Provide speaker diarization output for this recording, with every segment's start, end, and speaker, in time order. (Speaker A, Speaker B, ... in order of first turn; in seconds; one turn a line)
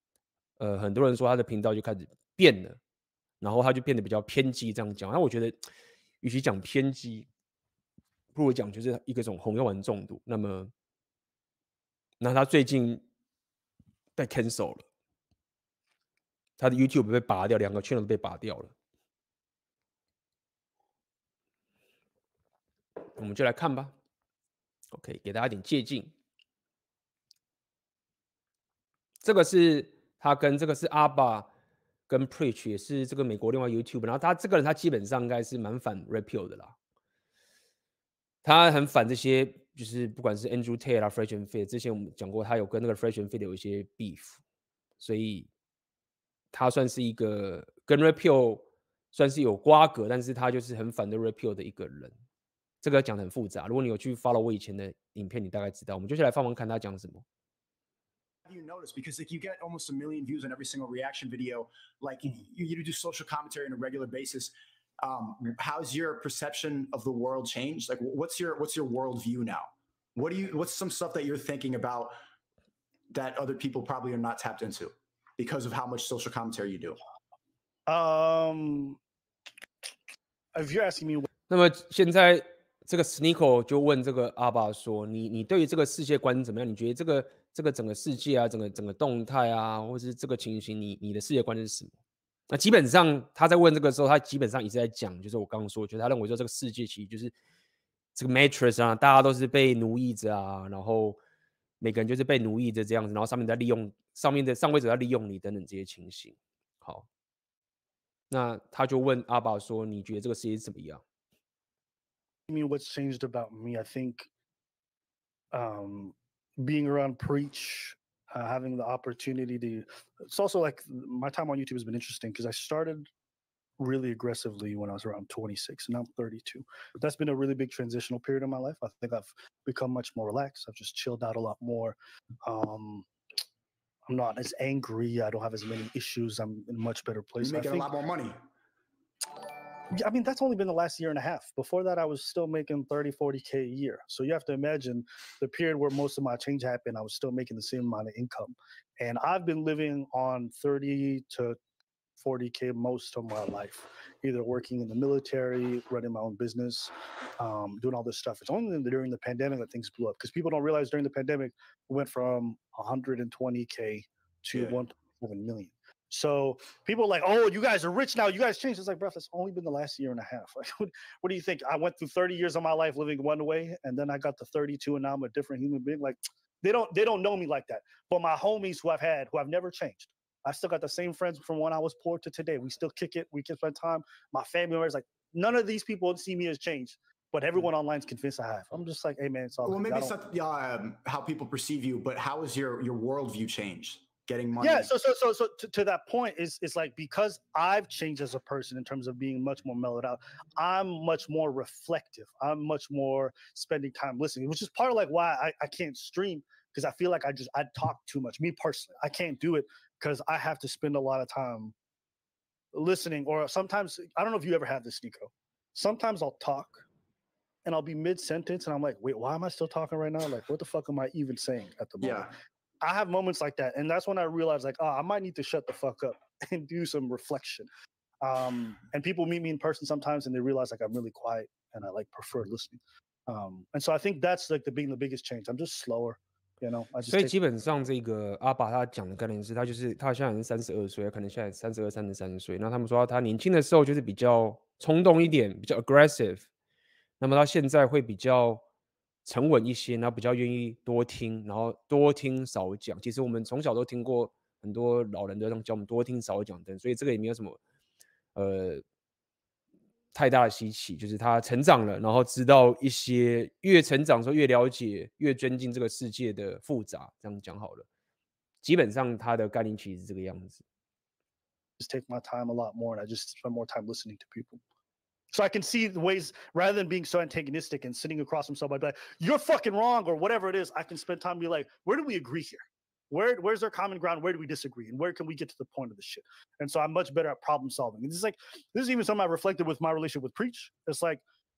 Speaker A: 0.6-2.8
Speaker A: 3.4-5.6
Speaker A: 6.2-7.3
Speaker A: 8.3-10.7
Speaker A: 12.2-13.0
Speaker A: 14.2-14.8
Speaker A: 16.6-18.7
Speaker A: 23.1-23.9
Speaker A: 24.9-26.1
Speaker A: 29.2-31.5
Speaker A: 32.1-36.7
Speaker A: 38.4-44.4
Speaker A: 45.0-45.5
Speaker A: 46.5-52.1
Speaker A: 52.8-57.2
Speaker B: 58.4-72.1
Speaker B: 73.1-77.0
Speaker C: 77.9-79.0
Speaker C: 80.5-81.3
Speaker A: 81.5-91.9
Speaker A: 92.5-97.3
Speaker A: 98.1-101.2
Speaker A: 101.8-107.0
Speaker A: 108.3-111.0
Speaker C: 112.5-114.3
Speaker C: 115.5-123.1
Speaker C: 123.8-133.1
Speaker C: 134.1-137.9
Speaker B: 137.4-138.4
Speaker C: 139.9-151.6
Speaker C: 152.2-190.1
Speaker B: 164.5-164.8
Speaker B: 189.6-194.9
Speaker C: 194.6-211.7
Speaker C: 212.7-216.8
Speaker C: 217.6-227.7
Speaker B: 222.0-222.3
Speaker C: 228.2-237.3
Speaker A: 237.0-246.4
Speaker A: 247.2-248.6
Speaker A: 249.2-257.6
Speaker A: 258.3-258.8
Speaker A: 260.1-267.9
Speaker A: 268.6-270.6
Speaker C: 271.8-274.6
Speaker C: 275.3-291.2